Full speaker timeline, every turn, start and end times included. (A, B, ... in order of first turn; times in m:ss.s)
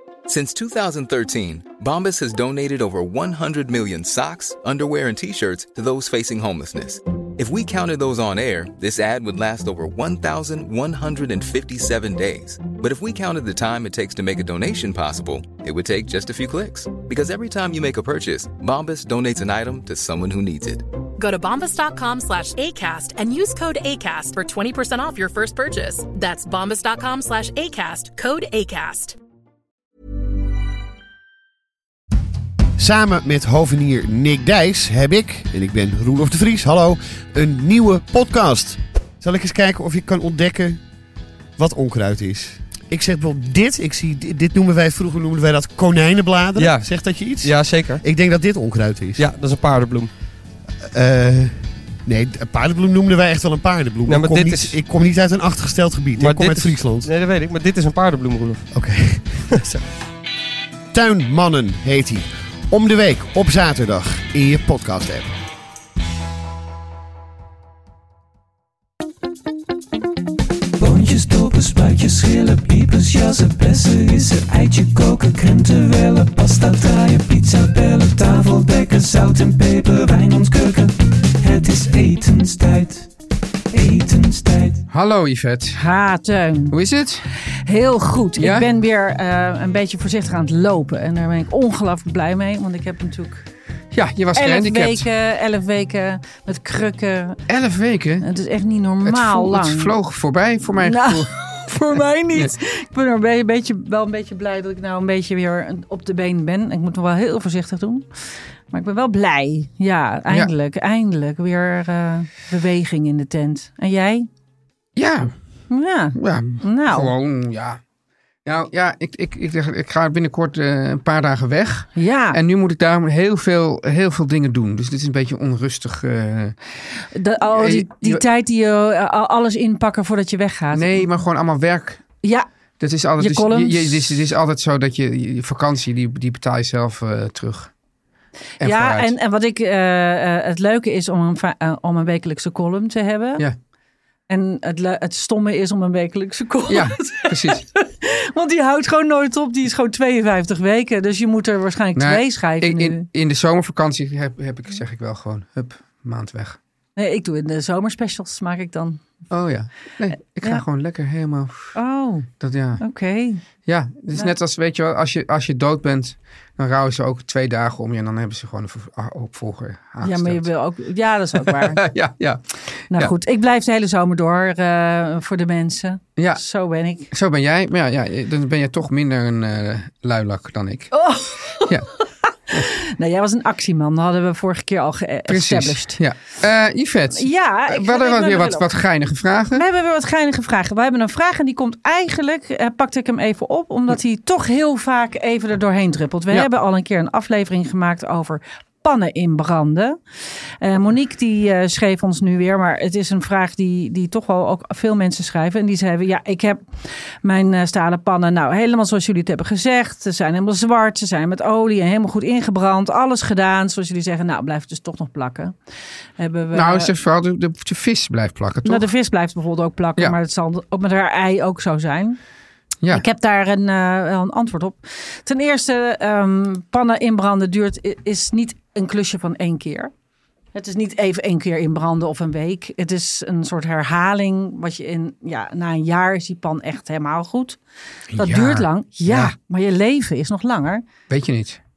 0:00.3-0:20.8 A
0:21.2-0:29.2 B
0:32.8-0:40.8 C
0:41.6-0:49.3 C
0:46.6-0:48.0 D
0:49.2-0:50.1 D
0:50.8-0:57.1 C
0:54.1-0:54.8 D
0:56.2-0:58.7 D
0:58.7-0:59.8 C
1:00.9-1:05.3 C
1:10.9-1:13.9 E
1:14.7-1:20.8 E
1:17.4-1:18.1 F
1:19.9-1:20.6 F
1:21.4-1:22.9 E
1:24.0-1:24.4 F
1:24.2-1:24.6 E
1:24.9-1:25.8 G
1:25.8-1:26.8 F
1:26.7-1:27.2 G
1:27.7-1:33.4 F
1:28.4-1:28.7 G
1:33.9-1:35.1 G
1:34.4-1:37.4 F
1:37.5-1:38.3 G
1:38.2-1:39.9 F
1:39.0-1:42.5 G
1:40.8-1:48.1 F
1:48.7-1:54.3 F
1:55.0-1:55.3 G
1:55.7-1:57.1 F
1:56.2-1:57.8 G
1:58.4-2:06.6 G
2:02.0-2:02.4 F
2:07.1-2:11.0 F
2:07.4-2:08.2 G
2:10.7-2:12.0 G
2:12.8-2:17.7 G
2:13.2-2:14.2 F
2:18.6-2:23.4 F
2:18.6-2:19.2 G
2:24.3-2:33.0 F
2:26.7-2:27.6 G
2:32.0-2:36.6 G
2:37.0-2:39.0 F
2:39.3-2:41.8 G
2:41.8-2:42.3 F
2:42.4-2:42.8 G
2:42.8-2:43.4 F
2:43.6-2:50.4 G
2:50.0-2:51.8 F
2:51.4-2:53.1 G
2:52.9-2:57.1 F
2:56.2-2:56.4 G
2:57.1-3:00.9 G
3:00.9-3:06.0 F
3:05.3-3:09.6 G
3:07.2-3:08.7 F
3:09.5-3:20.0 F
3:20.6-3:26.6 F
3:27.2-3:35.5 F
3:36.2-3:36.9 F
3:36.5-3:38.9 G
3:38.6-3:42.2 F
3:42.9-3:49.9 F
3:50.5-3:57.6 F
3:58.1-3:59.3 G
3:58.2-4:00.8 F
4:01.1-4:01.6 G